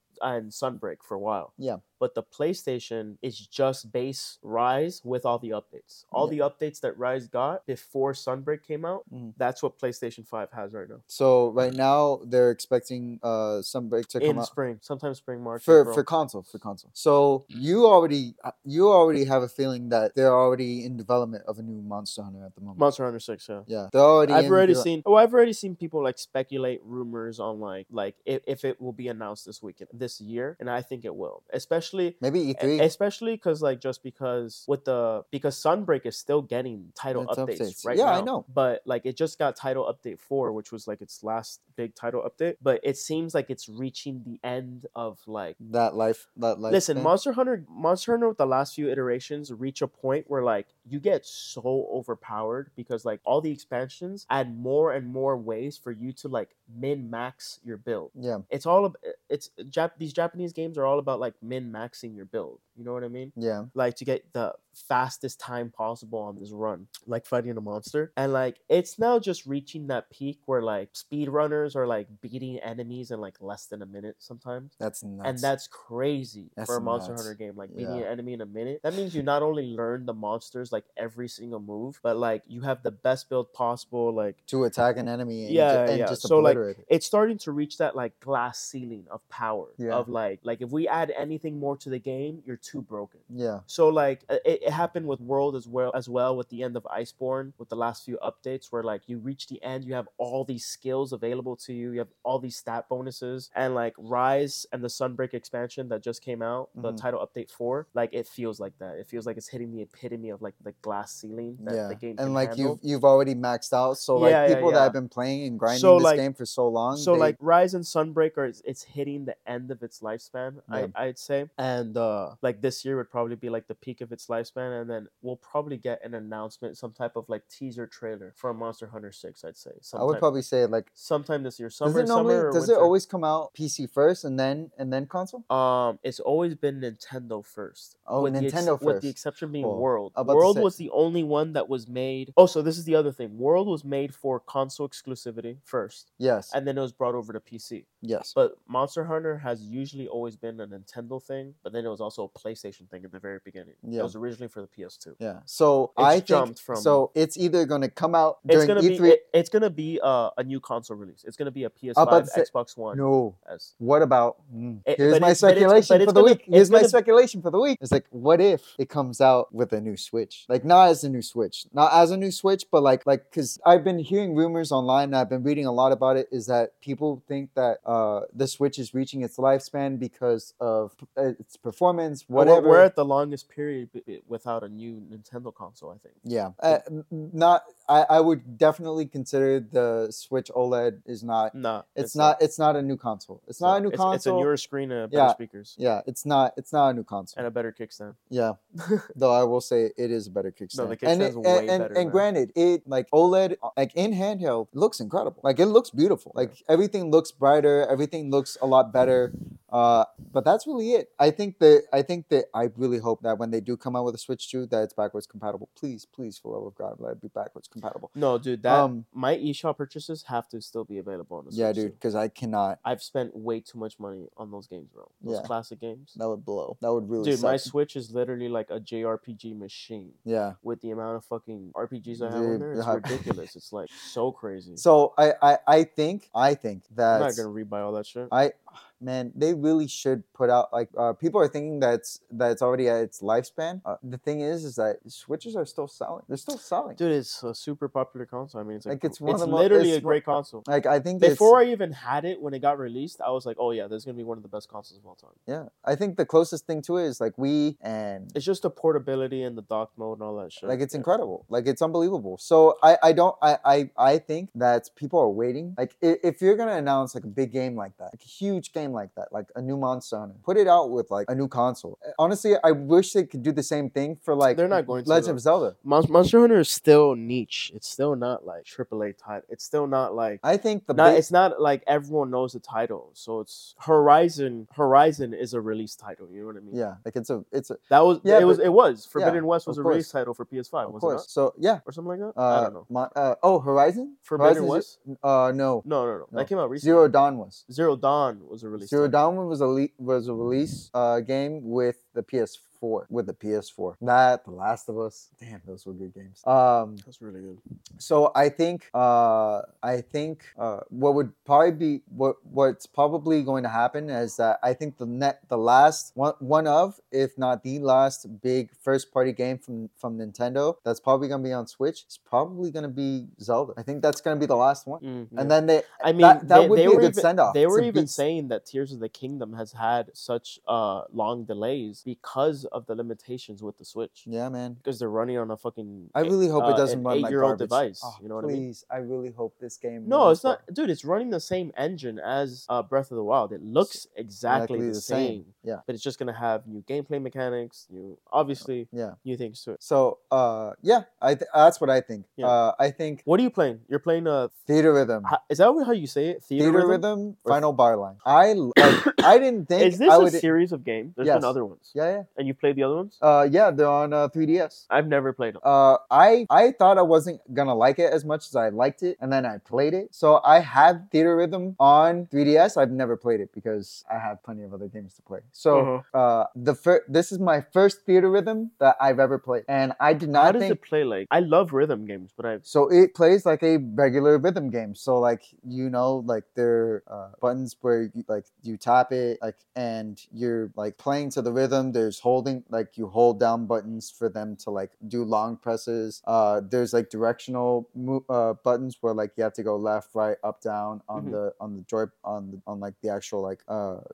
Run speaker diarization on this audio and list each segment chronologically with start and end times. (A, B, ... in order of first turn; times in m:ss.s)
0:00.2-0:11.0 A
0:06.1-0:06.4 B
0:11.1-0:14.5 B
0:14.2-0:16.0 A
0:15.6-0:22.9 B
0:22.8-0:23.7 A
0:23.7-0:24.9 B
0:24.2-0:45.6 A
0:32.2-0:32.9 B
0:37.1-0:38.4 B
0:45.6-0:47.1 B
0:46.7-1:24.4 A
0:58.2-0:58.4 B
1:03.4-1:03.7 B
1:14.8-1:15.5 B
1:16.6-1:18.1 B
1:24.5-1:26.8 B
1:25.4-1:52.8 A
1:29.8-1:30.1 B
1:33.3-1:33.6 B
1:46.8-1:47.0 B
1:51.6-1:57.4 B
1:54.2-1:55.0 A
1:55.7-1:56.2 A
1:56.9-2:10.3 A
2:00.7-2:00.9 B
2:10.0-2:10.9 B
2:11.0-2:12.9 A
2:11.8-2:15.4 B
2:15.5-2:35.2 A
2:18.1-2:20.7 B
2:26.2-2:26.5 B
2:28.0-2:28.4 B
2:33.8-2:34.1 B
2:35.2-2:39.2 B
2:36.0-2:37.1 A
2:38.5-2:43.7 A
2:42.0-3:02.9 B
2:44.9-2:47.0 A
3:02.3-3:06.8 A
3:06.2-3:14.5 B
3:11.5-3:12.4 A
3:13.6-3:15.8 A
3:15.1-3:17.4 B
3:17.4-3:18.2 A
3:18.3-3:18.6 B
3:18.8-3:19.1 A
3:19.1-3:38.1 B
3:20.7-3:22.2 A
3:38.2-3:42.0 A
3:38.7-3:39.0 B
3:41.5-3:42.8 B
3:42.8-3:46.2 A
3:45.2-3:45.5 B
3:46.2-3:47.7 B
3:47.2-3:54.8 A
3:50.2-3:50.6 B
3:52.2-3:53.2 B
3:54.8-3:57.5 B
3:57.1-3:58.3 A
3:58.3-4:07.0 B
4:07.0-4:10.7 A
4:08.9-4:11.6 B
4:11.2-4:15.4 A
4:15.5-4:18.3 B
4:18.3-4:21.1 A
4:20.6-4:35.8 B
4:34.5-4:46.8 A
4:40.4-4:41.2 B
4:46.7-4:48.6 B
4:47.9-4:51.3 A
4:49.2-4:50.1 B
4:50.8-4:51.8 B
4:51.8-4:52.9 A
4:52.4-4:57.6 B
4:54.3-4:54.9 A
4:55.8-4:57.0 A
4:57.7-4:59.2 A
4:58.8-5:07.0 B
5:07.0-5:07.6 A
5:08.0-5:28.2 B
5:25.0-5:34.3 A
5:34.3-5:34.8 B
5:34.8-5:38.7 A
5:36.2-5:40.6 B
5:40.0-5:49.8 A
5:43.8-5:45.8 B
5:48.5-5:49.2 B
5:49.8-5:53.2 B
5:53.3-5:54.5 A
5:54.7-5:55.3 B
5:55.2-5:57.6 A
5:56.6-6:00.5 B
5:58.8-5:59.2 A
5:59.8-6:03.2 A
6:01.2-6:02.3 B
6:03.2-6:04.8 B
6:04.9-6:05.6 A
6:05.6-6:20.8 B
6:15.7-6:16.0 A
6:20.3-6:22.6 A
6:22.7-6:44.0 B
6:41.2-6:41.4 A